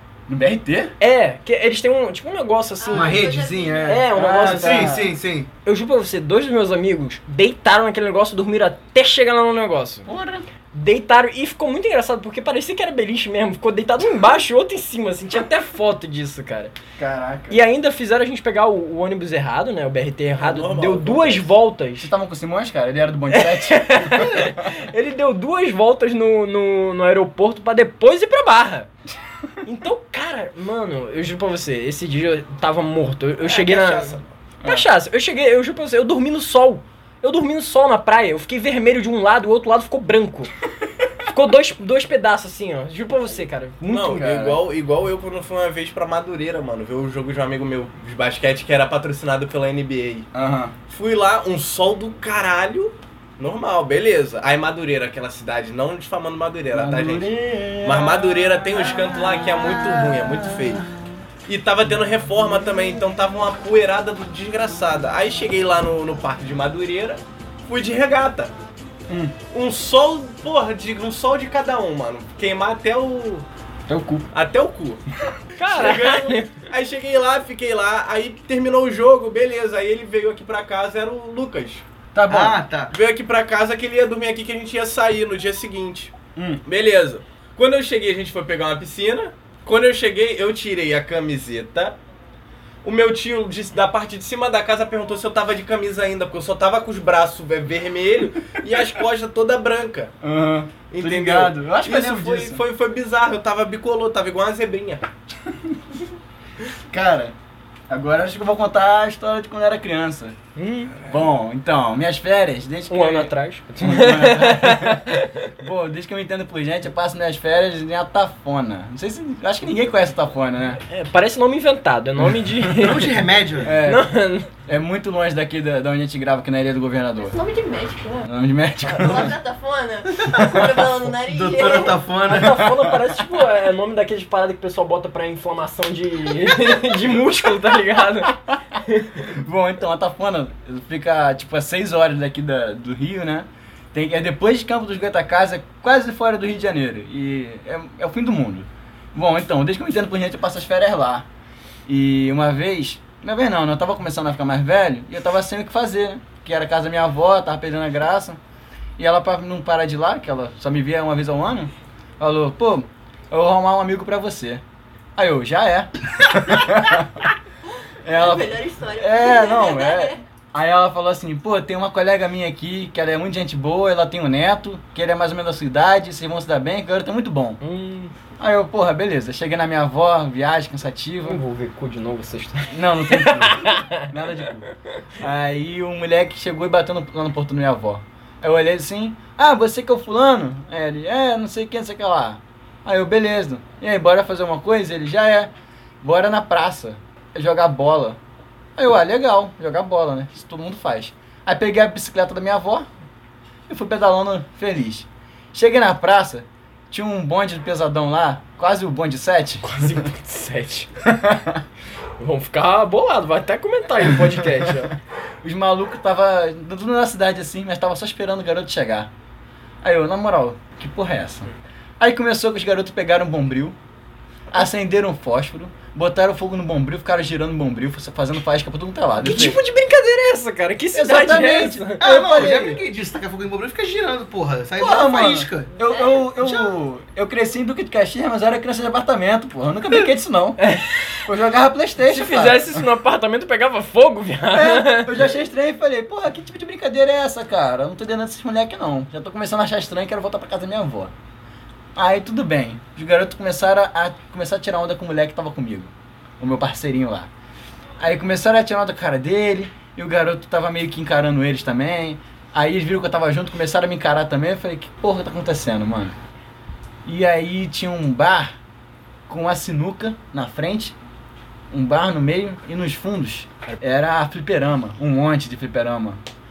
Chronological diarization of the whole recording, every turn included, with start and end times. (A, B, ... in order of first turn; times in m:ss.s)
0:00.3-0:00.9 A
0:01.0-0:05.0 B
0:02.8-0:04.0 C
0:02.9-0:05.5 D
0:04.1-0:05.1 A
0:05.6-0:10.0 B
0:10.0-0:10.4 A
0:10.7-0:16.7 B
0:17.0-0:17.6 A
0:17.5-0:22.1 B
0:20.4-0:21.5 E
0:22.0-0:24.6 A
0:23.3-0:28.9 B
0:29.6-0:40.5 B
0:33.4-0:34.2 E
0:41.2-0:44.3 B
0:43.8-0:50.3 E
0:44.1-0:44.6 A
0:50.3-0:50.7 A
0:50.9-1:00.8 E
0:56.7-1:00.8 A
1:01.4-1:08.5 E
1:09.1-1:09.3 A
1:09.5-1:13.4 E
1:13.9-1:14.3 A
1:14.3-1:15.0 E
1:15.6-1:16.5 B
1:15.7-1:21.8 E
1:22.1-1:22.6 A
1:22.3-1:22.9 D
1:22.9-1:26.1 E
1:26.4-1:26.6 A
1:26.6-1:32.0 E
1:32.8-1:40.1 E
1:40.2-1:42.6 A
1:40.9-1:45.0 E
1:46.9-1:47.3 A
1:47.9-1:50.4 A
1:50.6-1:51.0 B
1:51.0-2:00.8 A
1:52.9-1:55.5 B
2:00.9-2:03.1 B
2:02.7-2:03.8 D
2:03.6-2:04.1 A
2:03.8-2:04.5 B
2:04.6-2:07.4 A
2:07.2-2:08.3 C
2:08.2-2:09.3 A
2:08.8-2:12.0 C
2:10.3-2:10.8 A
2:11.2-2:12.7 D
2:12.2-2:19.1 B
2:12.3-2:13.0 A
2:19.3-2:31.2 A
2:31.9-2:38.4 A
2:39.0-2:44.6 A
2:45.2-2:47.2 A
2:48.0-2:57.6 A
2:48.1-2:50.2 C
2:57.6-2:58.1 B
2:58.4-3:01.4 A
3:01.2-3:04.0 B
3:02.7-3:18.2 A
3:18.8-3:22.9 A
3:23.7-3:30.0 A
3:29.6-3:30.9 B
3:31.1-3:31.6 A
3:32.2-3:34.9 B
3:35.4-3:39.1 A
3:39.8-3:43.7 A
3:44.5-3:49.6 A
3:49.2-3:52.0 B
3:50.9-3:52.8 A
3:52.0-3:55.7 D
3:54.8-4:00.6 A
3:56.4-3:56.7 D
4:00.6-4:01.2 B
4:01.2-4:02.8 A
4:02.0-4:05.3 B
4:04.5-4:11.1 A
4:12.0-4:17.3 A
4:18.0-4:26.2 A
4:27.0-4:28.5 A
4:29.3-4:30.9 A
4:31.7-4:36.2 A